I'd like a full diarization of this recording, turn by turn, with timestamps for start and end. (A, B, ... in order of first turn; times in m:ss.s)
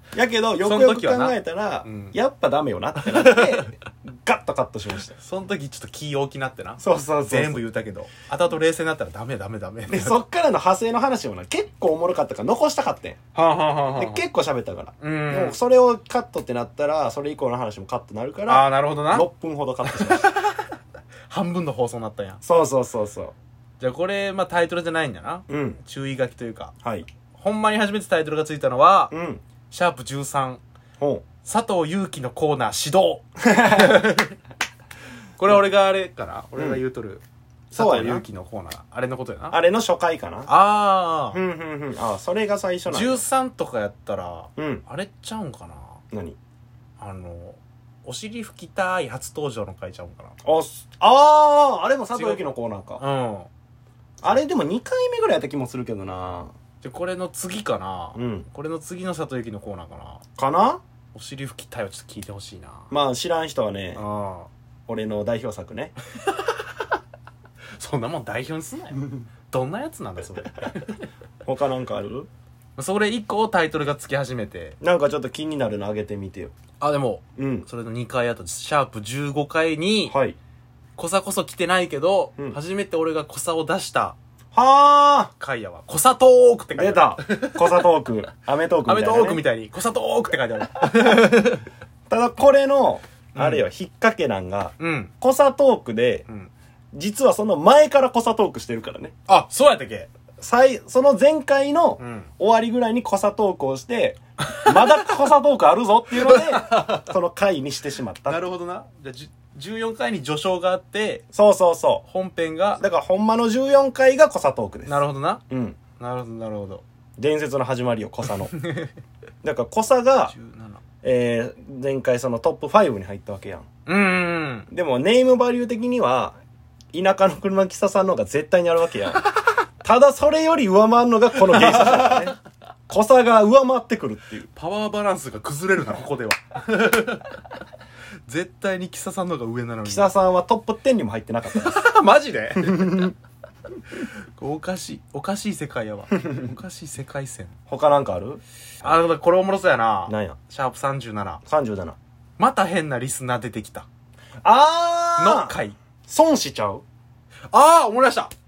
0:00.1-0:05.2 A
0:00.6-0:02.2 B
0:03.0-0:03.7 B
0:05.1-0:10.2 B
0:06.8-0:07.6 A
0:09.9-0:13.2 A
0:13.4-0:14.2 B
0:14.0-0:20.4 A
0:15.0-0:15.6 B
0:18.5-0:19.3 B
0:19.9-0:20.7 B
0:21.3-0:22.4 B
0:22.4-0:23.3 A
0:23.8-0:26.7 B
0:25.5-0:25.8 A
0:26.8-0:27.1 A
0:27.4-0:29.1 B
0:29.1-0:29.4 A
0:29.7-0:30.6 B
0:31.0-0:31.2 A
0:31.4-0:34.4 B
0:33.4-0:33.8 A
0:35.4-0:39.6 B
0:36.6-0:36.8 A
0:37.7-0:38.2 A
0:39.5-0:40.5 A
0:40.5-0:41.4 B
0:41.3-0:43.2 A
0:42.9-0:46.0 B
0:44.6-0:44.8 A
0:46.1-0:46.4 A
0:47.0-0:50.3 B
0:50.4-0:53.0 A
0:52.2-0:52.4 B
0:53.0-0:53.5 B
0:54.2-0:56.5 A
0:56.8-1:00.2 B
0:58.2-0:58.5 A
1:00.4-1:00.8 A
1:01.1-1:02.9 B
1:02.9-1:04.0 A
1:04.0-1:04.5 B
1:04.9-1:06.0 A
1:07.8-1:11.0 B
1:11.5-1:12.3 A
1:12.8-1:14.8 B
1:14.8-1:16.5 A
1:16.8-1:20.1 B
1:17.4-1:17.7 A
1:20.1-1:20.4 A
1:21.0-1:24.2 B
1:24.5-1:25.3 A
1:25.4-1:27.9 B
1:26.8-1:29.4 A
1:28.8-1:31.7 B
1:32.1-1:36.3 A
1:33.4-1:33.6 B
1:34.8-1:35.1 B
1:36.9-1:39.2 A
1:39.3-1:40.1 B
1:40.4-1:48.4 A
1:42.0-1:42.3 B
1:46.2-1:47.0 B
1:48.3-1:51.2 B
1:51.3-1:52.1 A
1:52.1-1:52.8 B
1:52.8-1:55.8 A
1:54.9-1:55.4 B
1:56.0-1:56.8 B
1:57.2-1:58.6 A
1:58.5-1:58.9 B
1:59.4-2:00.3 A
2:00.3-2:00.8 B
2:01.0-2:03.7 A
2:03.9-2:04.7 B
2:04.7-2:06.4 A
2:06.9-2:12.4 A
2:11.4-2:12.4 B
2:12.9-2:14.5 A
2:14.6-2:17.4 B
2:18.3-2:20.1 B
2:19.8-2:21.8 A
2:21.5-2:23.1 B
2:22.7-2:23.1 A
2:23.9-2:27.5 B
2:27.7-2:29.0 A
2:28.8-2:31.4 B
2:30.1-2:30.4 A
2:31.5-2:32.0 A
2:32.4-2:33.9 B
2:34.4-2:35.6 A
2:35.2-2:35.8 B
2:36.1-2:36.8 A
2:37.5-2:38.3 B